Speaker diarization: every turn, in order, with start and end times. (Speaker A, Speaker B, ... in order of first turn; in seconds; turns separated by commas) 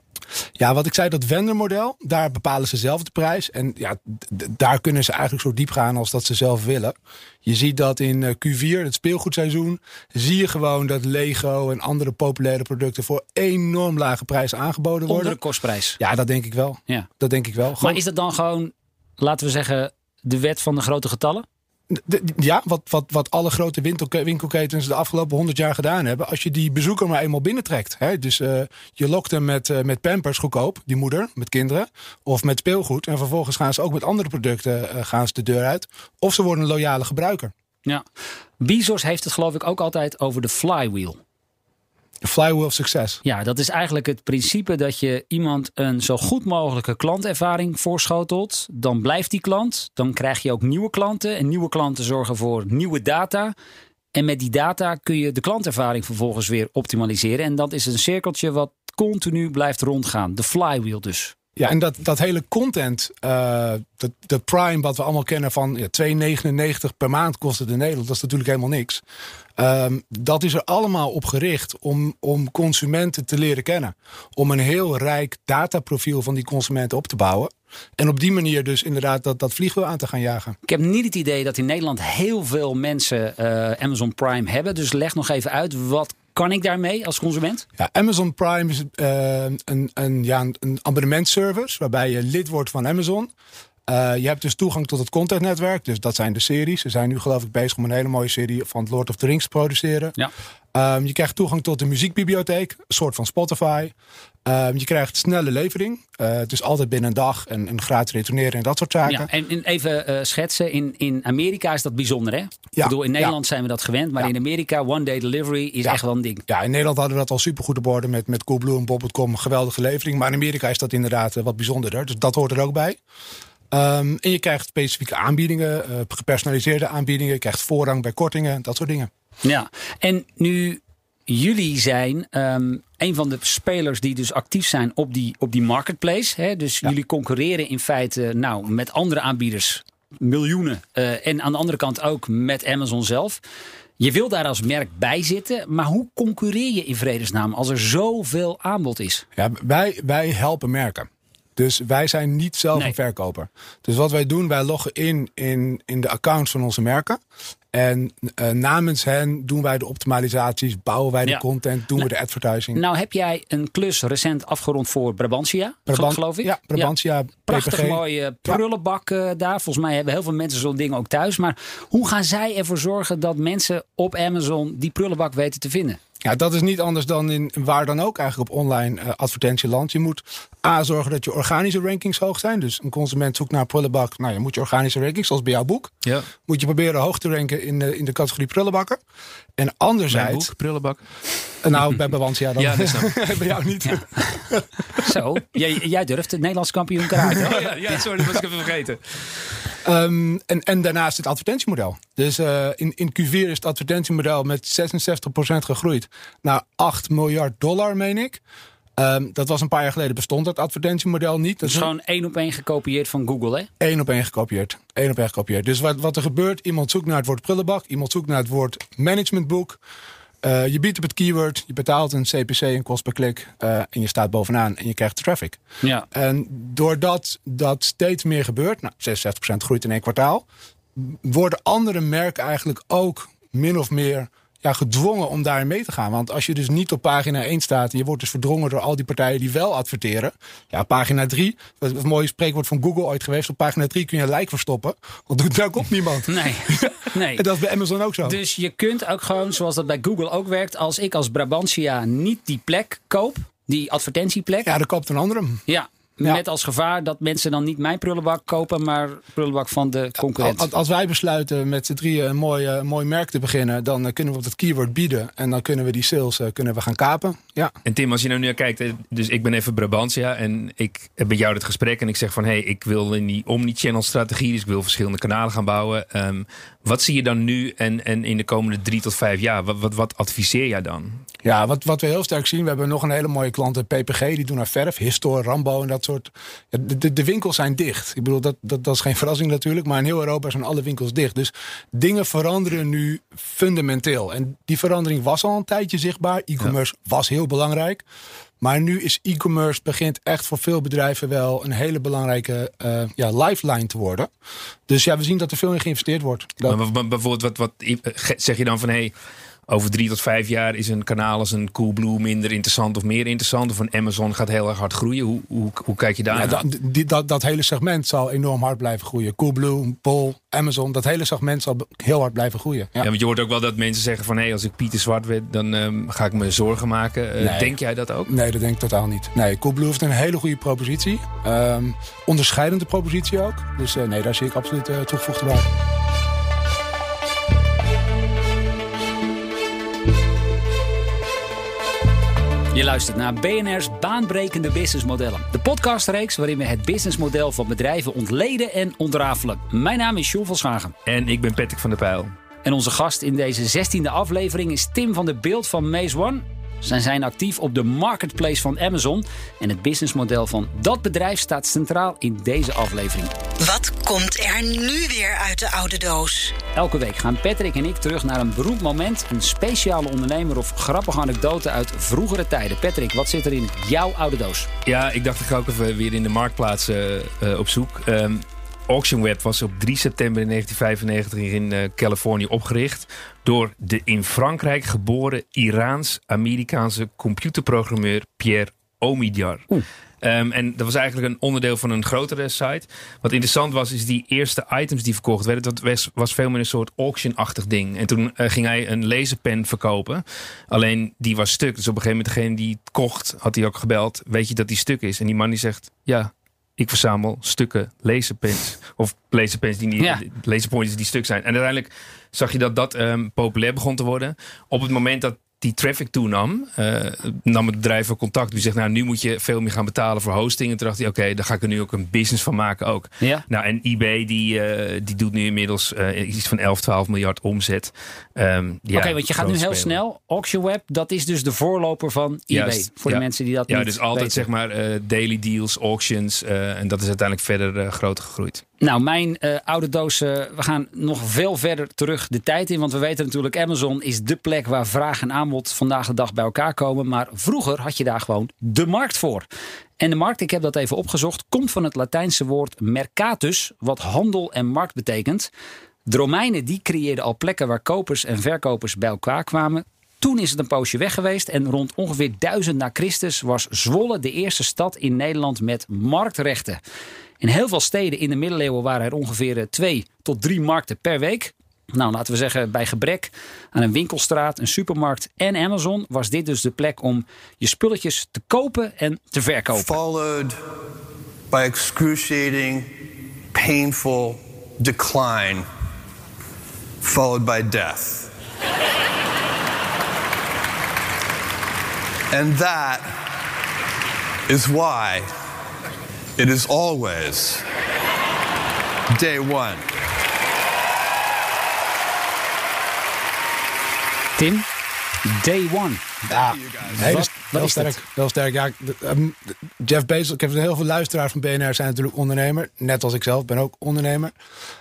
Speaker A: 0.6-15.4, Speaker B: 15.1-16.0, Speaker A: 16.0-18.0, Speaker B: 17.8-21.5, Speaker A: 21.9-37.5, Speaker B: 38.6-41.2, Speaker A: 42.2-43.2, Speaker B: 43.2-53.5, Speaker B: 54.1-61.3, Speaker A: 61.6-69.0, Speaker A: 69.6-80.6, Speaker B: 80.7-87.7, Speaker A: 87.8-93.3, Speaker A: 93.9-100.2, Speaker A: 100.7-103.9, Speaker A: 104.5-109.3, Speaker B: 109.1-116.5, Speaker A: 112.7-113.3, Speaker A: 115.8-123.0, Speaker A: 123.7-129.1, Speaker B: 129.4-143.4, Speaker B: 144.0-149.2, Speaker A: 149.4-157.2, Speaker A: 157.7-162.8, Speaker B: 162.8-166.9, Speaker A: 165.9-168.6, Speaker B: 167.5-176.0, Speaker A: 176.2-189.0, Speaker A: 189.6-190.5, Speaker C: 190.1-191.0, Speaker A: 191.6-194.8, Speaker C: 192.6-193.2, Speaker B: 195.0-197.7, Speaker A: 197.2-197.6, Speaker C: 197.4-199.4, Speaker A: 199.8-208.4, Speaker A: 209.0-211.9, Speaker B: 211.6-213.7, Speaker A: 213.8-219.8, Speaker A: 220.4-225.6, Speaker A: 226.1-248.4, Speaker B: 246.3-247.4, Speaker B: 248.2-254.7, Speaker A: 254.6-255.6, Speaker B: 255.7-260.7, Speaker A: 260.4-267.7, Speaker C: 267.9-281.2, Speaker A: 281.4-298.0, Speaker A: 298.6-304.3, Speaker A: 304.9-306.8, Speaker C: 306.7-309.1, Speaker C: 309.7-316.6, Speaker A: 316.3-323.1, Speaker C: 323.0-328.3, Speaker A: 327.4-327.8, Speaker A: 328.3-335.7, Speaker B: 342.7-350.9, Speaker C: 351.1-352.4, Speaker B: 352.6-363.3, Speaker D: 363.6-366.6, Speaker B: 366.8-374.7, Speaker C: 374.9-389.7, Speaker C: 390.2-430.0, Speaker B: 428.9-434.5, Speaker C: 432.5-438.6, Speaker B: 438.8-449.5, Speaker B: 450.0-455.5, Speaker B: 456.1-466.8, Speaker B: 467.4-479.9, Speaker E: 479.8-480.6, Speaker E: 481.5-482.9, Speaker E: 483.5-485.7, Speaker E: 487.0-488.3, Speaker E: 492.3-493.2, Speaker E: 494.5-495.3, Speaker E: 496.4-497.6, Speaker E: 499.1-499.9, Speaker B: 504.4-504.7, Speaker B: 505.2-506.0, Speaker E: 506.3-507.2, Speaker A: 506.3-514.3, Speaker B: 506.9-508.0